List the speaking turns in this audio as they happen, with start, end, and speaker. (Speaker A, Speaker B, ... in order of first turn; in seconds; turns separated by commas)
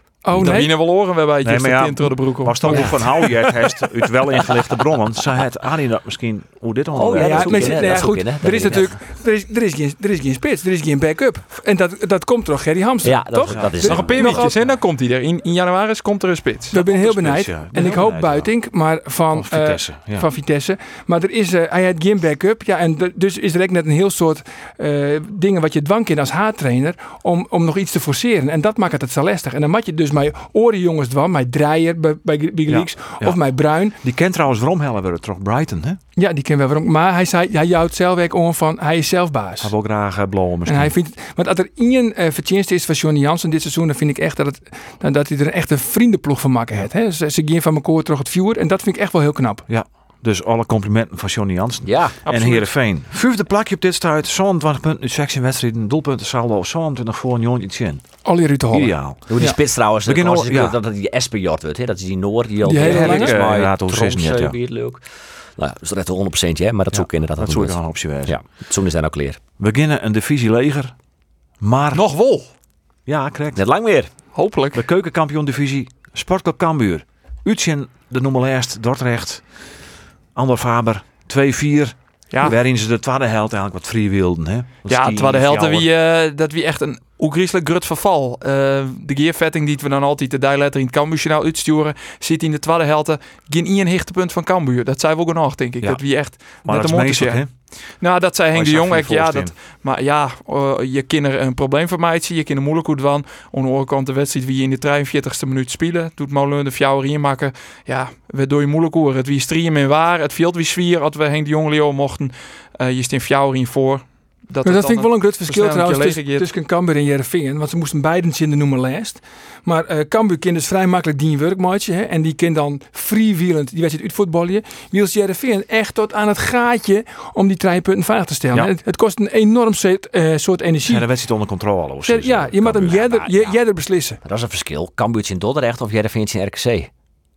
Speaker A: 0.2-0.7, Speaker B: 0.4-3.3, Speaker C: 0.4-0.6, Speaker C: 1.4-8.1, Speaker D: 2.7-3.0, Speaker D: 6.9-8.9, Speaker A: 7.1-14.6, Speaker D: 13.0-14.5, Speaker C: 13.5-14.2, Speaker B: 13.8-16.8, Speaker A: 16.7-34.0, Speaker C: 16.8-18.5, Speaker C: 19.3-20.3, Speaker C: 32.7-33.4, Speaker C: 34.0-36.0, Speaker A: 36.1-39.7, Speaker C: 39.6-40.9, Speaker A: 40.6-49.6, Speaker C: 49.7-58.0, Speaker D: 51.8-52.2, Speaker B: 52.2-52.7, Speaker A: 58.2-59.5, Speaker C: 58.7-59.4, Speaker D: 59.3-65.0, Speaker C: 60.0-60.8, Speaker A: 62.6-63.4, Speaker C: 62.8-64.5, Speaker D: 65.6-69.4, Speaker C: 66.9-68.4, Speaker C: 69.6-70.9, Speaker C: 71.6-72.0, Speaker B: 71.9-72.5, Speaker C: 73.0-73.6, Speaker D: 73.5-74.1, Speaker B: 74.3-74.8, Speaker C: 74.7-79.4, Speaker C: 80.3-85.9, Speaker B: 82.3-82.5, Speaker B: 84.9-97.4, Speaker C: 96.6-97.5, Speaker B: 98.0-116.5, Speaker C: 98.5-99.5, Speaker A: 114.6-131.1, Speaker C: 130.8-133.0, Speaker A: 132.0-134.2, Speaker D: 132.8-133.6, Speaker D: 134.2-136.9